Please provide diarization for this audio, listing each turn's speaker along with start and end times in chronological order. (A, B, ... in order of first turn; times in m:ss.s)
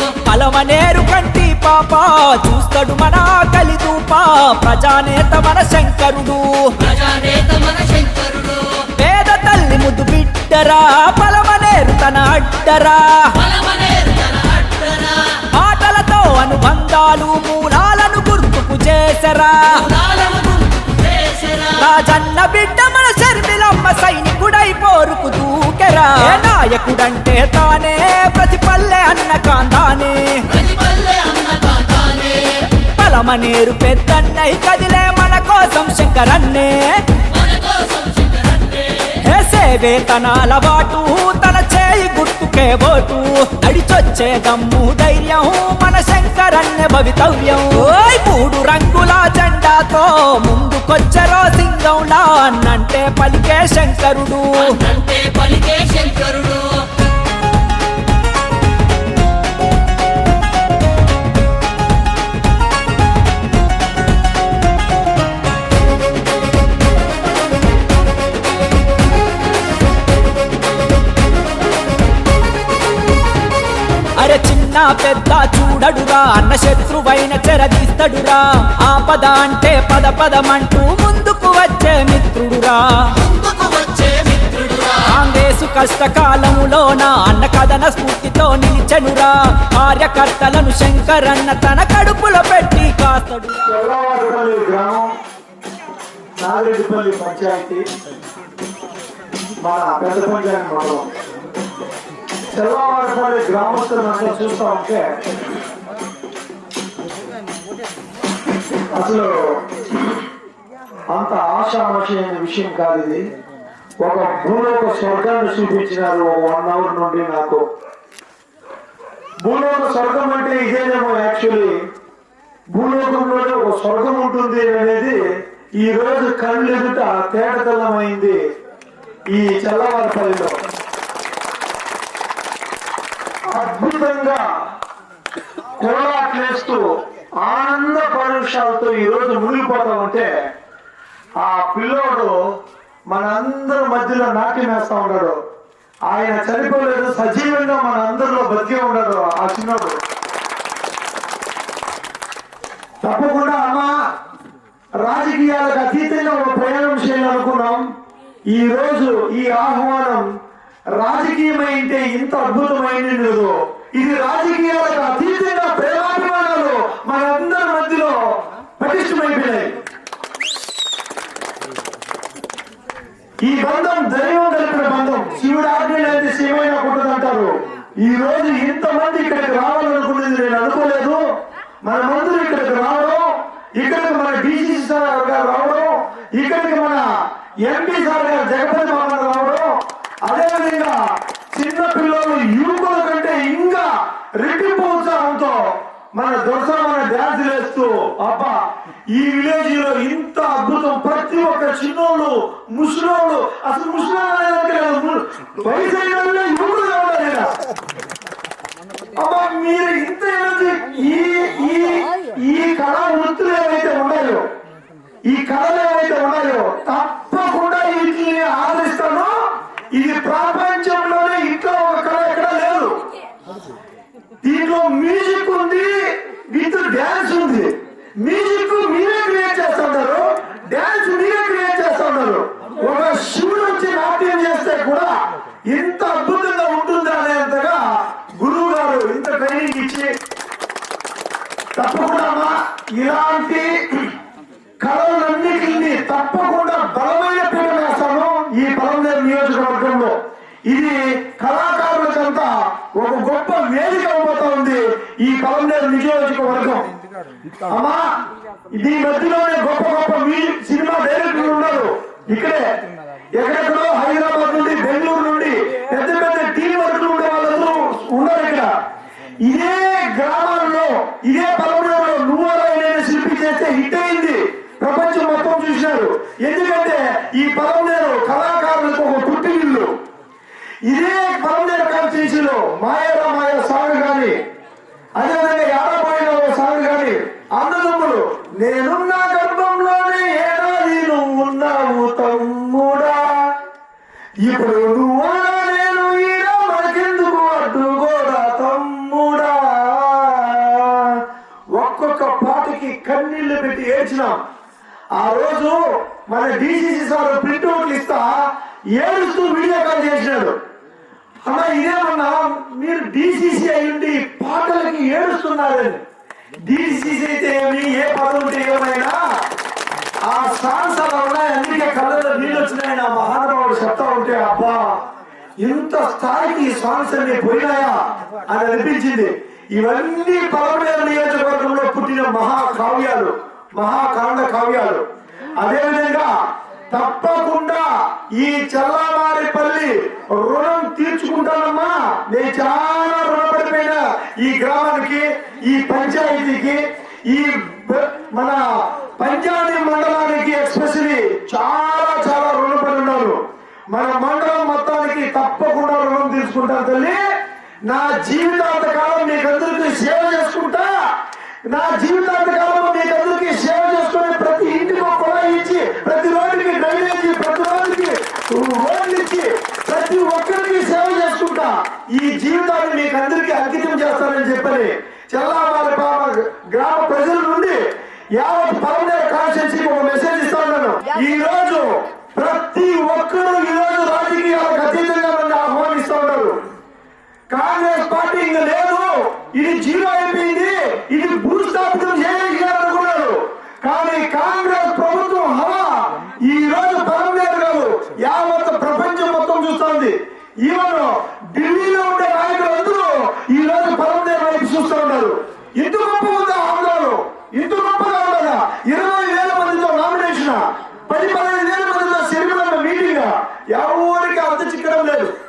0:00.3-0:06.8 A
0:06.9-0:08.6 B
0:09.0-0:13.4 A
0:13.5-0:15.1 B
0:15.5-0:19.9 A
0:20.1-0:20.6 B
0:21.3-0:21.7 B
0:21.8-0:30.4 A
0:30.6-0:32.4 B
0:33.0-0:37.0 A
0:37.5-0:38.7 B
0:39.2-0:54.8 A
0:54.9-0:56.6 B
1:14.2-1:23.2 A
1:23.4-1:25.0 B
1:25.0-1:33.6 A
1:33.7-1:35.1 C
1:36.4-1:37.8 C
1:39.6-1:41.1 C
1:42.5-1:45.1 C
1:49.0-1:49.4 C
1:51.1-1:53.2 C
1:54.0-1:57.6 C
1:59.4-2:01.7 C
2:02.7-2:05.2 C
2:05.8-2:08.4 C
2:09.3-2:10.6 C
2:13.5-2:14.4 C
2:15.8-2:16.8 C
2:17.4-2:20.3 C
2:21.4-2:22.3 C
2:23.1-2:25.4 C
2:26.1-2:30.0 C
2:33.0-2:33.9 C
2:35.0-2:37.9 C
2:38.5-2:40.3 C
2:41.0-2:48.2 C
2:48.8-2:49.8 C
2:53.4-2:57.5 C
2:58.0-3:01.2 C
3:01.8-3:07.0 C
3:07.7-3:09.7 C
3:10.3-3:11.0 C
3:11.5-3:15.6 C
3:16.2-3:18.6 C
3:19.2-3:27.5 C
3:29.2-3:34.4 C
3:35.3-3:39.3 C
3:39.9-3:43.0 C
3:44.4-3:45.9 C
3:46.5-3:47.7 C
3:48.2-3:55.1 C
3:55.7-3:57.8 C
3:58.4-4:00.1 C
4:01.8-4:04.1 C
4:04.8-4:10.2 C
4:10.7-4:16.9 C
4:17.7-4:18.0 C
4:18.7-4:22.6 C
4:23.4-4:28.7 C
4:29.4-4:39.9 C
4:40.9-4:44.4 C
4:45.2-4:53.5 C
4:54.4-5:01.2 C
5:01.8-5:04.4 C
5:05.2-5:08.3 C
5:09.0-5:10.6 C
5:11.5-5:16.0 C
5:16.7-5:19.2 C
5:20.3-5:24.8 C
5:25.6-5:35.0 C
5:35.6-5:36.3 C
5:36.9-5:37.8 C
5:38.4-5:46.8 C
5:47.3-5:48.6 C
5:49.2-5:53.4 C
5:53.9-5:57.2 C
5:57.9-6:00.9 C
6:01.7-6:17.8 C
6:18.4-6:26.6 C
6:27.5-6:55.3 C